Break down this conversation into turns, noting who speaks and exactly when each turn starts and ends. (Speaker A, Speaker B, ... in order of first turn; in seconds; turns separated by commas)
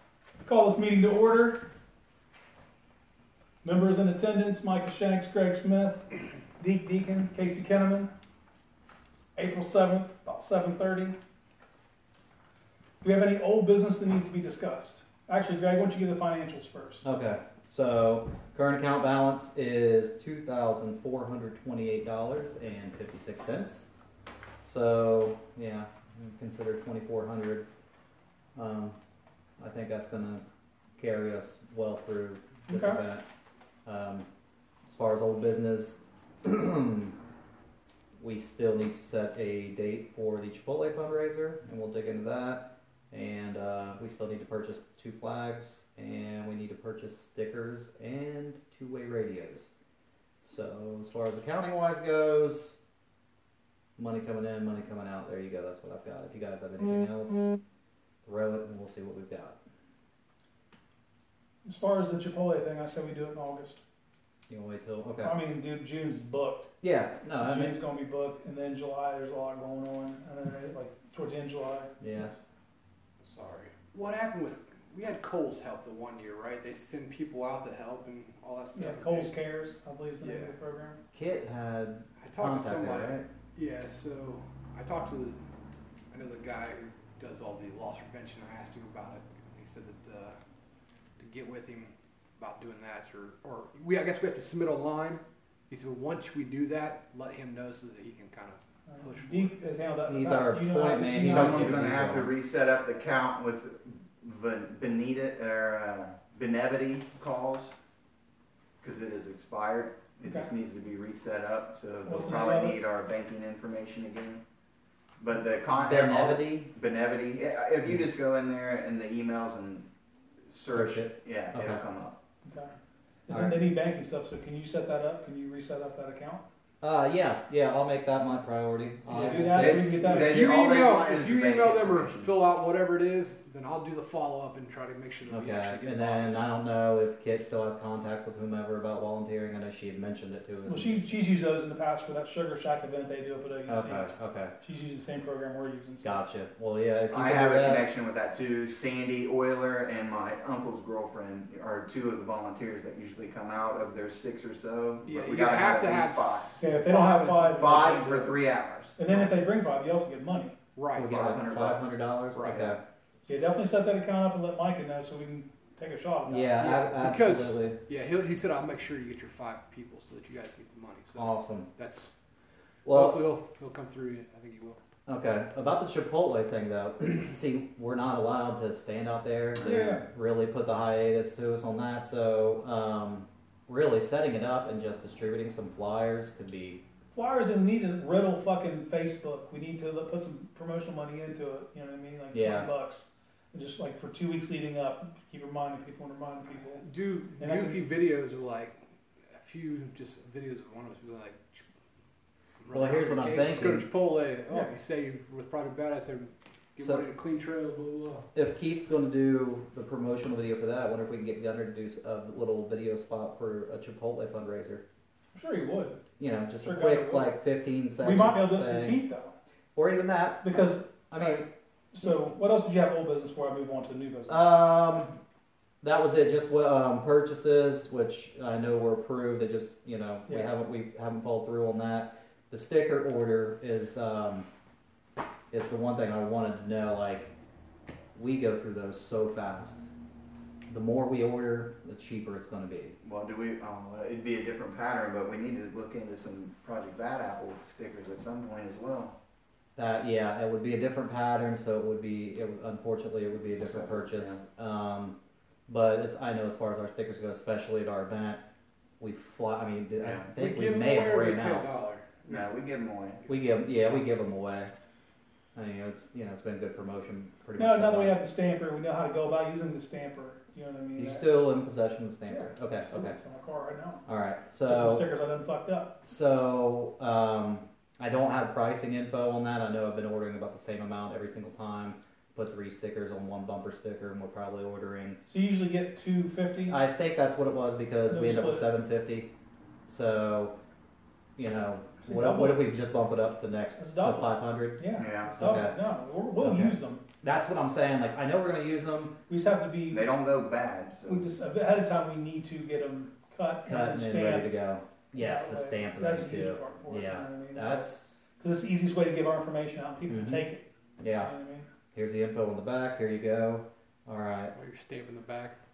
Speaker A: 0.4-1.6, Speaker A: 3.6-6.1, Speaker A: 6.6-8.1, Speaker A: 9.3-11.2, Speaker A: 13.0-17.0, Speaker B: 17.0-23.9, Speaker B: 24.6-27.7, Speaker B: 28.5-29.0, Speaker B: 29.6-30.4, Speaker B: 31.0-33.2, Speaker A: 32.7-33.0, Speaker B: 33.9-34.3, Speaker B: 34.9-37.2, Speaker B: 38.2-49.7, Speaker B: 50.4-52.8, Speaker B: 54.0-57.5, Speaker B: 58.2-59.6, Speaker A: 61.6-63.8, Speaker B: 64.5-65.4, Speaker A: 65.2-66.7, Speaker B: 66.8-67.8, Speaker A: 67.4-71.9, Speaker B: 72.0-72.4, Speaker C: 73.2-79.3, Speaker A: 78.7-81.0, Speaker C: 80.2-80.5, Speaker B: 81.1-83.3, Speaker C: 82.2-85.4, Speaker C: 86.1-90.4, Speaker C: 91.2-99.5, Speaker A: 98.9-101.9, Speaker B: 100.1-102.3, Speaker D: 101.1-107.7, Speaker D: 108.8-114.4, Speaker A: 112.0-112.8, Speaker D: 115.2-119.9, Speaker B: 115.8-116.7, Speaker D: 120.5-122.2, Speaker B: 120.7-121.8, Speaker A: 122.4-122.7, Speaker A: 123.3-126.4, Speaker B: 123.3-123.7, Speaker B: 126.8-130.1, Speaker C: 129.1-129.6, Speaker A: 129.1-130.4, Speaker D: 129.6-132.4, Speaker C: 130.1-136.5, Speaker B: 135.3-141.1, Speaker A: 140.6-146.1, Speaker B: 143.7-144.5, Speaker B: 146.0-147.8, Speaker D: 147.1-156.6, Speaker C: 155.0-157.9, Speaker A: 156.6-158.4, Speaker D: 157.4-159.3, Speaker A: 159.0-160.6, Speaker C: 160.8-161.7, Speaker D: 160.9-162.8, Speaker B: 160.9-162.8, Speaker C: 162.3-162.7, Speaker A: 163.2-166.8, Speaker B: 166.3-167.8, Speaker C: 166.6-172.1, Speaker B: 171.2-171.7, Speaker B: 172.8-173.2, Speaker C: 172.8-174.8, Speaker B: 175.1-186.8, Speaker A: 179.6-180.1, Speaker A: 187.1-196.8, Speaker B: 192.3-192.7, Speaker C: 196.8-198.7, Speaker A: 197.4-197.8, Speaker C: 199.3-201.6, Speaker C: 202.6-208.2, Speaker B: 202.7-203.9, Speaker B: 206.8-207.0, Speaker B: 208.3-214.8, Speaker A: 215.3-216.0, Speaker B: 216.2-219.0, Speaker A: 216.6-217.3, Speaker A: 218.0-219.3, Speaker B: 219.7-221.5, Speaker A: 220.4-224.4, Speaker B: 224.3-225.2, Speaker B: 225.8-234.5, Speaker B: 235.5-237.3, Speaker B: 238.1-239.8, Speaker B: 240.7-242.9, Speaker D: 243.0-249.1, Speaker B: 249.8-258.4, Speaker D: 253.5-254.4, Speaker B: 259.0-261.7, Speaker D: 260.0-260.2, Speaker C: 260.3-262.4, Speaker D: 262.2-263.2, Speaker B: 263.3-264.7, Speaker B: 265.5-268.2, Speaker A: 267.6-271.3, Speaker B: 271.0-273.1, Speaker A: 272.3-274.0, Speaker B: 274.1-275.1, Speaker A: 274.6-275.9, Speaker B: 276.0-285.2, Speaker A: 285.2-286.8, Speaker B: 286.7-289.3, Speaker A: 288.1-288.7, Speaker B: 289.9-290.5, Speaker B: 291.4-295.8, Speaker A: 292.0-292.7, Speaker A: 293.8-297.0, Speaker D: 295.0-295.4, Speaker B: 296.4-299.2, Speaker A: 299.3-300.1, Speaker D: 299.9-301.3, Speaker A: 301.1-304.6, Speaker B: 303.6-308.1, Speaker A: 305.1-310.6, Speaker B: 310.1-310.4, Speaker B: 311.0-311.3, Speaker A: 311.2-311.7, Speaker B: 311.9-314.5, Speaker C: 314.5-315.5